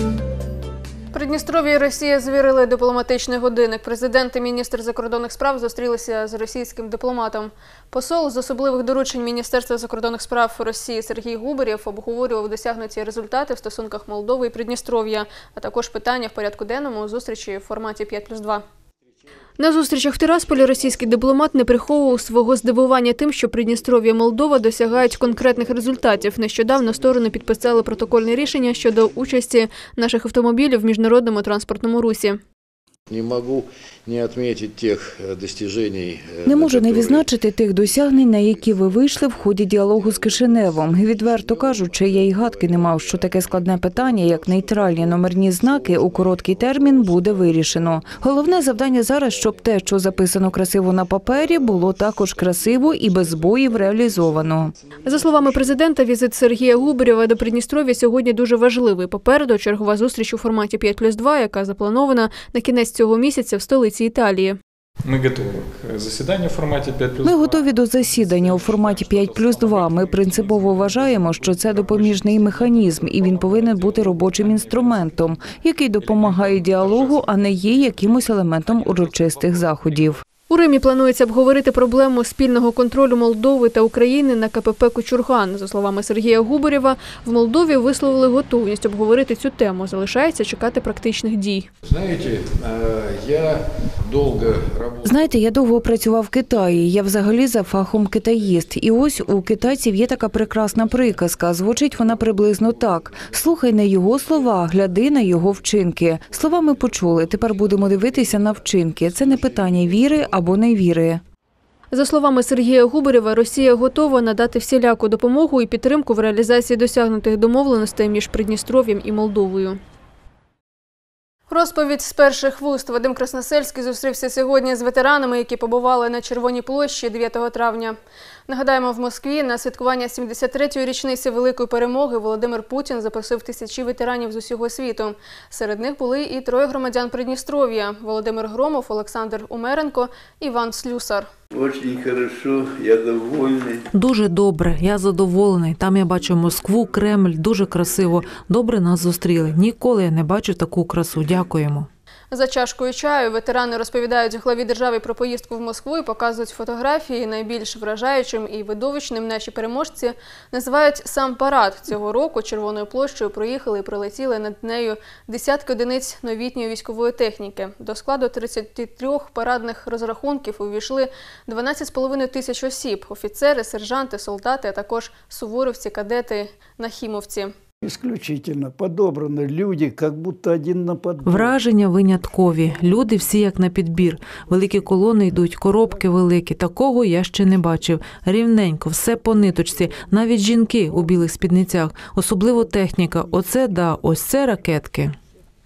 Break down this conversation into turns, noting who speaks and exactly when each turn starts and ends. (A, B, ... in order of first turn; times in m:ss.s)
0:01.1-0:18.6 A
0:19.6-0:32.4 A
0:33.1-0:37.3 B
0:36.4-0:54.7 C
0:55.0-1:04.6 A
1:05.1-1:07.4 D
1:07.2-1:20.2 C
1:20.5-1:31.7 A
1:31.9-1:35.2 B
1:35.0-1:51.2 C
1:51.9-1:59.8 A
2:01.5-2:08.0 A
2:08.5-2:21.3 A
2:21.5-2:23.8 E
2:23.9-2:31.9 F
2:32.3-2:57.5 A
2:57.8-3:01.5 G
3:01.2-3:15.1 F